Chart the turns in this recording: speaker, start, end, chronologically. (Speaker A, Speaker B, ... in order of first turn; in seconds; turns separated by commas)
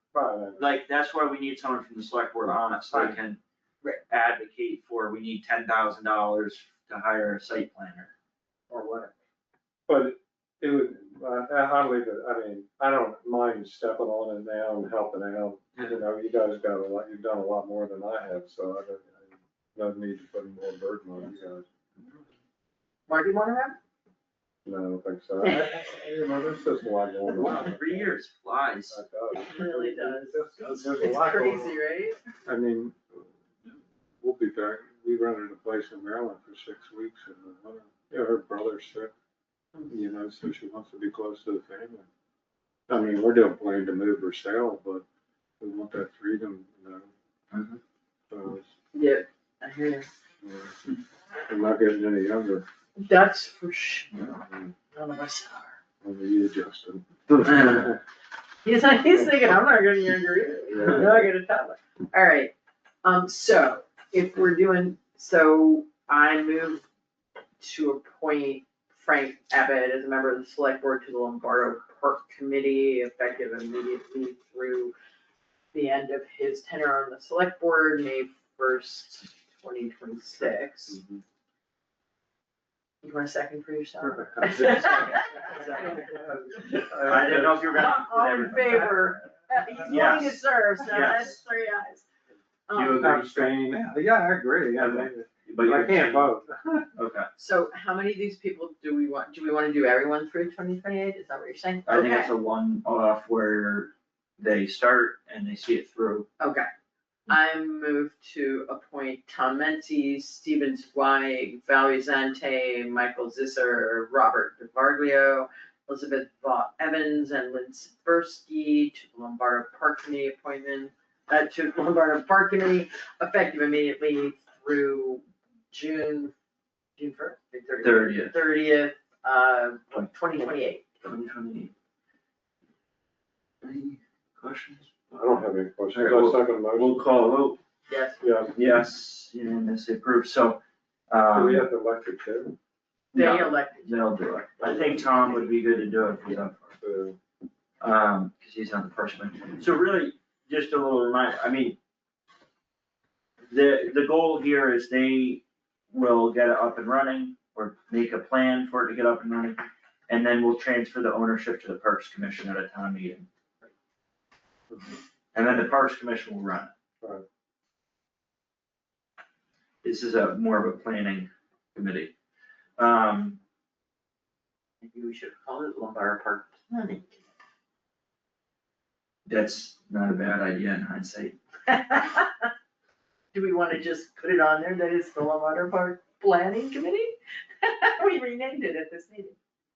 Speaker A: 0.1-0.6, Speaker B: 0.6-3.4, Speaker A: 2.9-3.2, Speaker B: 4.1-8.1, Speaker A: 8.7-9.1, Speaker A: 9.9-21.6, Speaker C: 23.1-23.8, Speaker A: 24.6-28.1, Speaker B: 27.3-29.0, Speaker A: 28.9-31.7, Speaker C: 29.3-32.2, Speaker A: 32.5-33.2, Speaker A: 34.2-39.1, Speaker A: 39.9-42.0, Speaker A: 42.9-45.0, Speaker A: 45.6-47.1, Speaker B: 47.5-47.8, Speaker A: 48.3-48.7, Speaker C: 48.9-50.1, Speaker A: 50.4-50.8, Speaker A: 51.5-52.6, Speaker C: 53.0-55.8, Speaker A: 56.0-58.0, Speaker B: 57.4-57.9, Speaker C: 58.6-66.8, Speaker A: 60.7-61.2, Speaker C: 67.6-74.9, Speaker C: 75.7-81.0, Speaker C: 83.0-86.1, Speaker A: 84.0-85.0, Speaker B: 84.5-86.1, Speaker A: 85.8-87.8, Speaker B: 87.0-89.1, Speaker C: 87.5-92.0, Speaker A: 88.7-89.0, Speaker A: 89.6-90.0, Speaker B: 89.8-91.4, Speaker C: 92.7-93.2, Speaker B: 92.7-93.6, Speaker A: 93.0-96.9, Speaker B: 94.8-96.3, Speaker B: 97.0-97.3, Speaker C: 97.4-102.3, Speaker B: 101.8-106.3, Speaker C: 106.4-106.7, Speaker C: 107.3-126.3, Speaker C: 127.0-130.8, Speaker B: 127.8-128.3, Speaker B: 131.0-131.7, Speaker B: 133.6-134.9, Speaker A: 135.1-137.1, Speaker B: 135.9-137.6, Speaker C: 137.9-138.2, Speaker A: 138.2-138.6, Speaker B: 138.6-141.6, Speaker A: 141.3-142.5, Speaker C: 143.1-143.9, Speaker B: 143.1-146.7, Speaker A: 146.8-147.2, Speaker B: 147.8-151.8, Speaker B: 153.5-163.3, Speaker B: 165.3-166.7, Speaker B: 169.8-172.1, Speaker B: 172.8-173.4, Speaker C: 174.8-177.2, Speaker B: 179.2-181.3, Speaker C: 181.7-182.5, Speaker C: 183.3-189.3